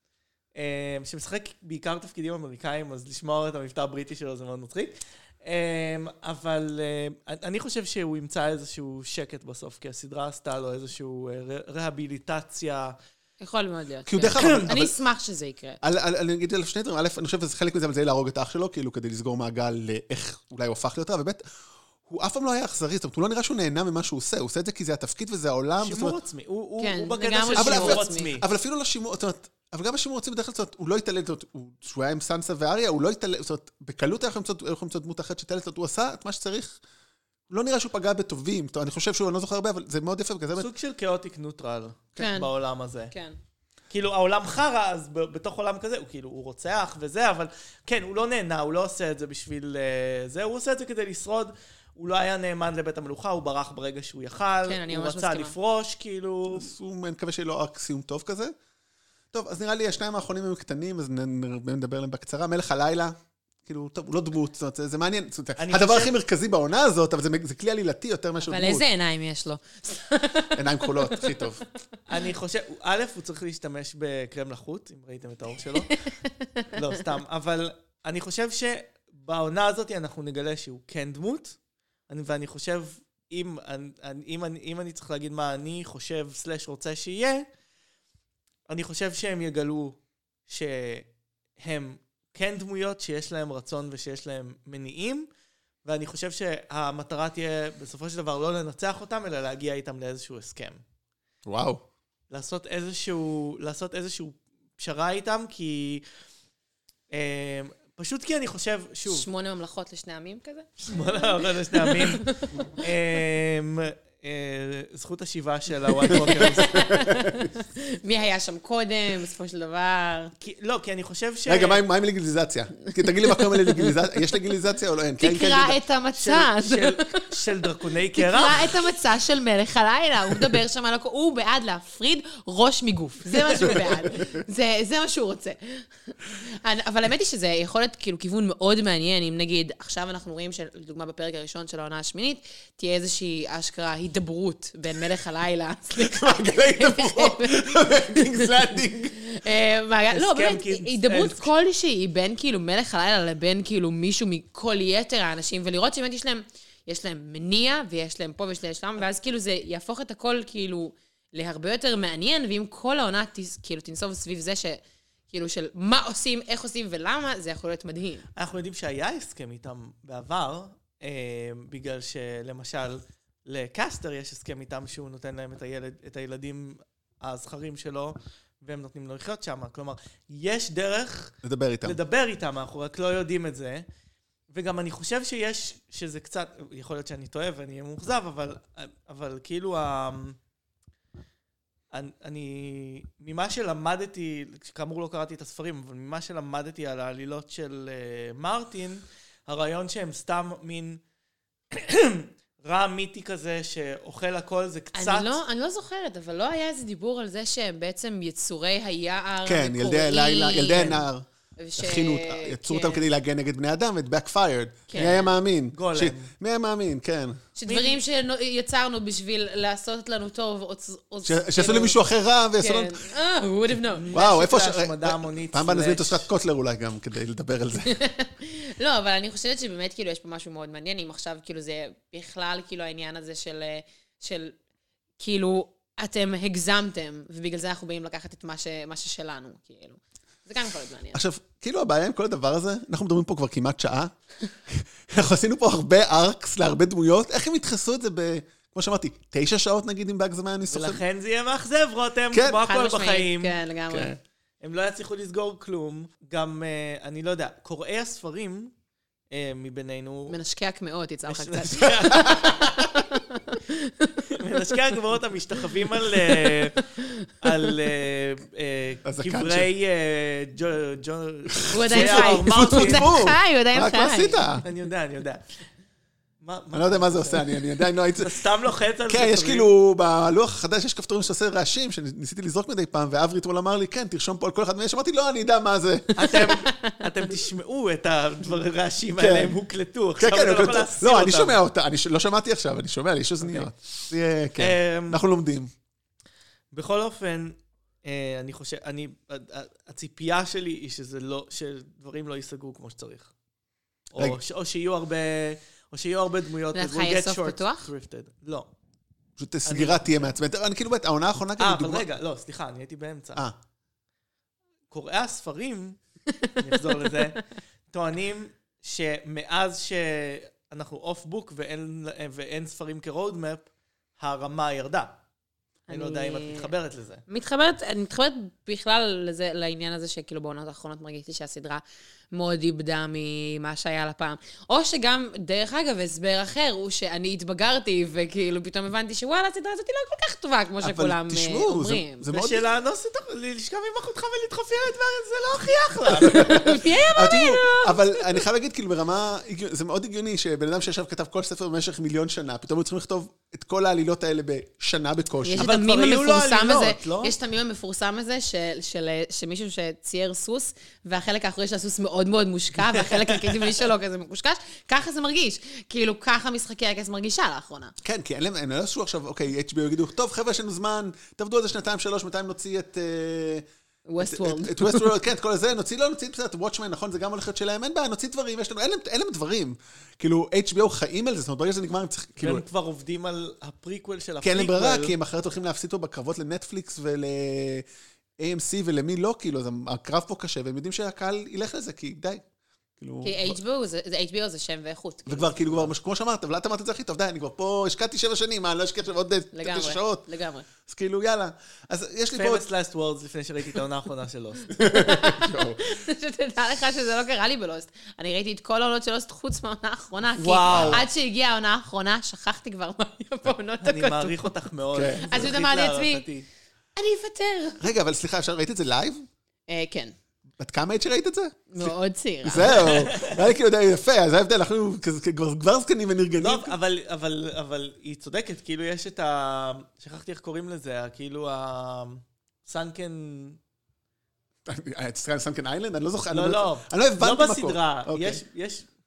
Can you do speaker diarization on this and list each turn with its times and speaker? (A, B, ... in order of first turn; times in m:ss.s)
0:00.6-0:13.0 A
0:13.4-0:15.8 B
0:14.0-0:14.9 C
0:14.3-0:14.7 A
0:15.8-0:21.4 C
0:22.0-0:26.2 C
0:25.8-0:28.4 A
0:26.8-0:28.3 B
0:27.5-0:36.8 C
0:37.5-0:40.7 C
0:40.6-0:43.1 A
0:42.2-0:42.5 B
0:43.1-0:43.4 B
0:43.9-0:56.7 A
0:54.6-0:55.5 B
0:56.5-0:58.5 C
0:59.3-1:08.8 C
1:05.6-1:06.1 A
1:08.4-1:11.4 B
1:10.5-1:11.6 C
1:12.1-1:16.0 A
1:15.9-1:16.7 B
1:16.7-1:21.6 A
1:22.1-1:27.4 A
1:28.7-1:31.1 A
1:31.6-1:35.3 A
1:35.8-1:40.8 A
1:41.4-1:41.8 C
1:42.3-1:46.0 A
1:47.1-1:49.3 A
1:49.1-1:52.4 B
1:50.8-1:56.8 A
1:56.0-1:57.5 C
1:56.2-2:00.3 B
2:00.4-2:01.8 A
2:01.5-2:05.8 C
2:03.3-2:03.9 B
2:05.2-2:07.3 B
2:06.2-2:08.7 A
2:08.1-2:28.5 B
2:13.6-2:14.3 C
2:26.0-2:29.2 C
2:29.1-2:48.3 B
2:30.1-2:31.5 A
2:48.4-3:03.8 A
3:01.4-3:02.0 C
3:04.5-3:10.4 A
3:11.9-3:21.0 A
3:21.7-3:25.4 A
3:24.9-3:31.0 B
3:29.4-3:31.2 C
3:31.6-3:33.0 B
3:31.8-3:37.4 C
3:34.9-3:35.3 B
3:34.9-3:36.3 A
3:37.6-3:42.0 B
3:37.7-3:38.0 A
3:41.2-3:43.0 C
3:42.6-3:44.0 B
3:43.9-3:46.3 A
3:44.1-3:48.0 C
3:47.8-3:54.6 B
3:55.2-4:01.2 B
4:01.1-4:04.1 C
4:04.7-4:11.0 C
4:10.7-4:13.6 A
4:12.3-4:12.6 C
4:12.5-4:14.1 B
4:13.9-4:14.2 C
4:14.6-4:18.7 A
4:19.3-4:20.4 A
4:20.3-4:24.4 B
4:21.3-4:22.7 A
4:22.0-4:22.8 C
4:24.3-4:26.8 A
4:26.0-4:27.7 B
4:27.4-4:33.1 A
4:29.0-4:29.7 C
4:31.6-4:34.6 C
4:31.7-4:34.4 B
4:34.6-4:35.6 A
4:36.4-4:37.6 A
4:36.7-4:38.3 C
4:38.2-4:39.7 A
4:39.1-4:46.5 C
4:46.2-4:51.6 A
4:46.3-4:47.0 B
4:49.2-4:49.6 C
4:50.2-4:55.7 C
4:53.4-4:53.7 A
4:54.6-4:55.2 A
4:56.7-5:03.3 A
5:04.1-5:08.7 A
5:06.7-5:07.9 B
5:09.4-5:12.0 C
5:09.6-5:10.3 A
5:11.6-5:13.4 A
5:14.9-5:16.0 A
5:16.3-5:17.1 B
5:16.6-5:25.1 A
5:25.9-5:26.7 B
5:25.9-5:27.2 A
5:27.3-5:42.2 B
5:40.8-5:42.6 C
5:42.3-5:46.7 A
5:46.1-5:55.7 C
5:46.3-5:48.2 B
5:55.4-6:07.9 B
5:55.6-5:57.3 A
6:02.9-6:03.7 A
6:08.0-6:13.6 C
6:14.1-6:15.1 B
6:14.2-6:22.6 C
6:22.4-6:25.1 A
6:24.4-6:27.8 C
6:28.4-6:32.4 C
6:33.0-6:33.6 C
6:33.2-6:35.8 B
6:35.3-6:40.2 C
6:39.5-6:40.7 B
6:40.8-6:42.6 C
6:42.3-6:44.8 A
6:44.7-6:45.8 C
6:44.8-6:54.5 B
6:50.4-6:51.0 A
6:50.7-6:51.0 C
6:53.8-6:56.5 A
6:54.9-6:55.5 C
6:55.2-6:56.2 B
6:57.0-6:57.8 B
6:57.8-6:59.2 C
6:59.7-7:00.1 B
7:00.6-7:06.8 C
7:01.7-7:02.8 B
7:02.6-7:03.4 A
7:06.4-7:13.6 A
7:14.6-7:18.4 C
7:16.3-7:18.9 A